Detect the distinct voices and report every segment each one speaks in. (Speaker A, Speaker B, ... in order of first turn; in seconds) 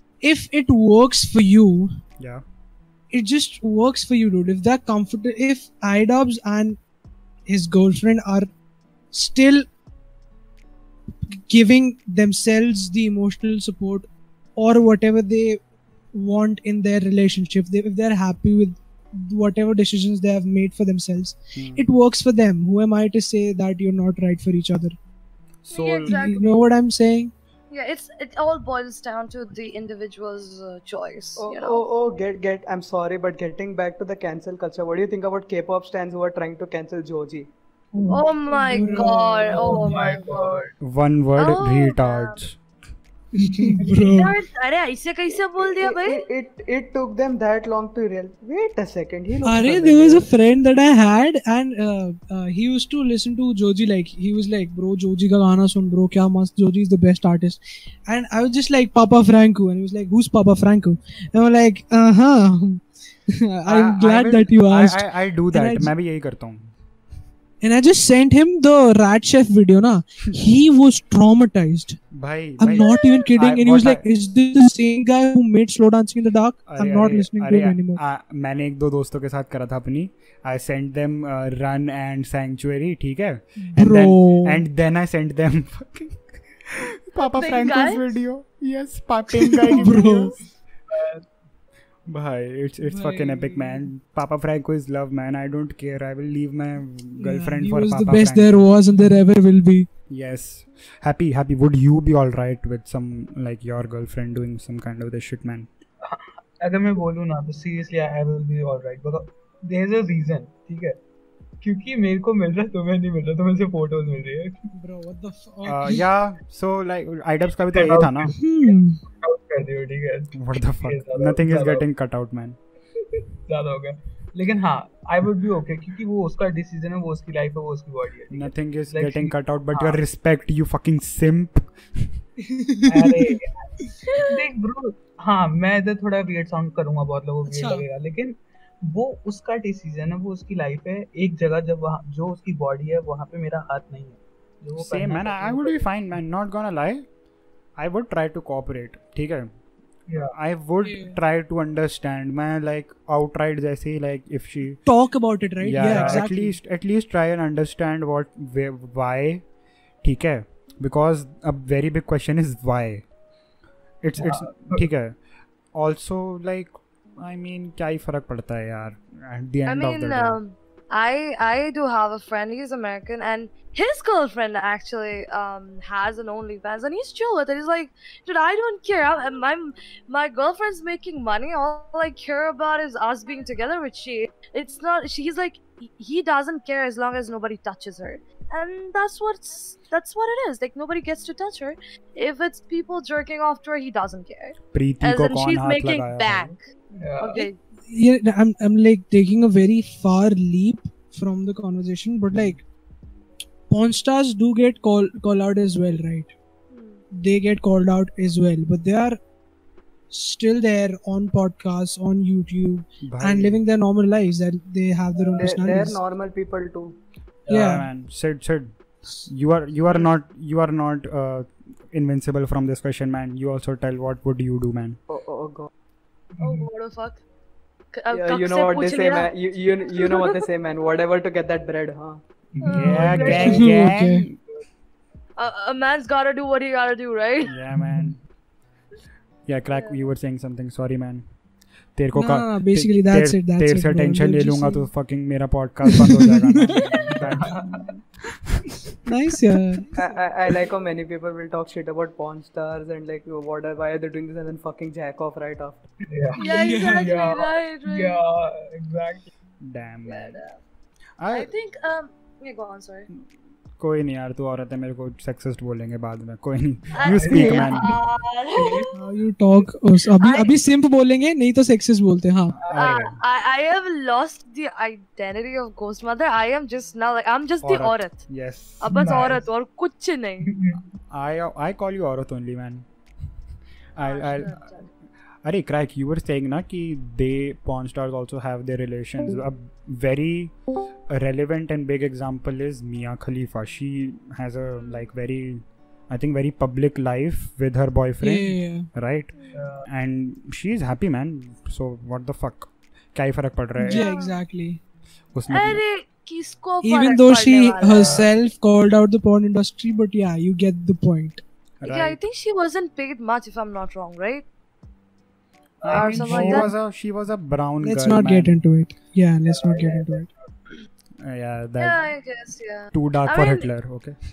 Speaker A: 0.2-1.9, 3.1-6.8, 7.5-8.5, 9.1-9.7, 11.3-15.6, 16.1-24.9, 26.1-27.3, 38.0-39.9, 43.4-44.4, 49.4-65.9, 67.6-72.0, 72.6-78.0, 83.6-84.6, 89.5-90.4, 92.8-93.9, 97.2-99.9, 114.7-116.0, 118.3-119.0, 132.5-133.2, 137.4-137.8, 150.8-151.2, 154.8-156.6, 197.8-202.6, 203.7-206.3, 207.1-209.2, 210.1-216.0, 217.5-217.8, 233.2-234.3, 242.1-244.9, 245.9-246.8, 249.1-250.0, 256.4-257.1, 268.9-272.6, 298.2-298.9, 303.8-304.8, 306.8-311.4, 316.3-316.7, 317.8-320.3
Speaker B: 21.5-21.8, 25.6-26.2, 40.8-42.6, 63.7-66.7, 72.1-74.0, 76.7-90.4, 92.1-98.6, 100.1-105.7, 115.6-118.3, 120.3-122.6, 128.3-132.1, 144.8-147.0, 147.8-149.5, 150.3-154.8, 155.6-159.4, 160.0-163.1, 164.0-165.1, 165.7-170.4, 194.7-196.5, 213.0-213.6, 217.5-218.8, 219.3-225.0, 232.7-234.4, 237.4-238.2, 239.4-241.2, 241.9-248.9, 259.6-260.4, 261.2-261.5, 263.8-267.9, 272.7-273.1, 277.6-278.9, 281.1-282.9, 283.9-284.6, 285.4-290.5, 291.1-304.1, 305.3-305.8, 311.8-312.2, 315.9-318.5, 321.2-322.0, 322.9-324.1
Speaker C: 25.7-26.5, 27.7-31.9, 38.1-40.6, 41.4-42.4, 44.1-46.2, 72.7-73.2, 87.2-88.1, 169.7-196.6, 197.2-197.6, 206.7-207.0, 226.4-227.2, 227.9-230.4, 232.6-233.5, 235.4-237.6, 239.7-240.1, 256.4-258.2, 260.1-260.6, 261.3-263.1, 266.9-268.9, 270.2-270.5, 272.7-278.2, 278.8-280.6, 284.0-284.9, 294.8-295.1, 303.9-304.4, 305.5-308.3, 311.8-314.4, 315.9-316.7, 321.8-323.7
Speaker D: 31.4-37.5, 45.6-50.3, 215.3-217.0, 225.1-225.7, 228.1-232.2, 249.9-255.8
Speaker E: 38.7-40.8, 43.4-44.2, 90.9-91.2, 106.0-111.0, 111.6-114.7, 117.7-121.8, 123.1-130.0, 132.8-145.8, 150.1-150.3, 155.8-156.2, 164.2-164.9, 197.0-197.5, 217.5-217.8, 226.4-226.7, 232.5-233.8, 237.7-238.1, 247.1-247.9, 256.1-259.3, 266.9-267.9, 268.5-268.9, 272.6-273.1, 278.8-279.4, 280.4-280.8, 299.5-299.9, 307.8-308.3, 315.8-316.5, 319.5-320.3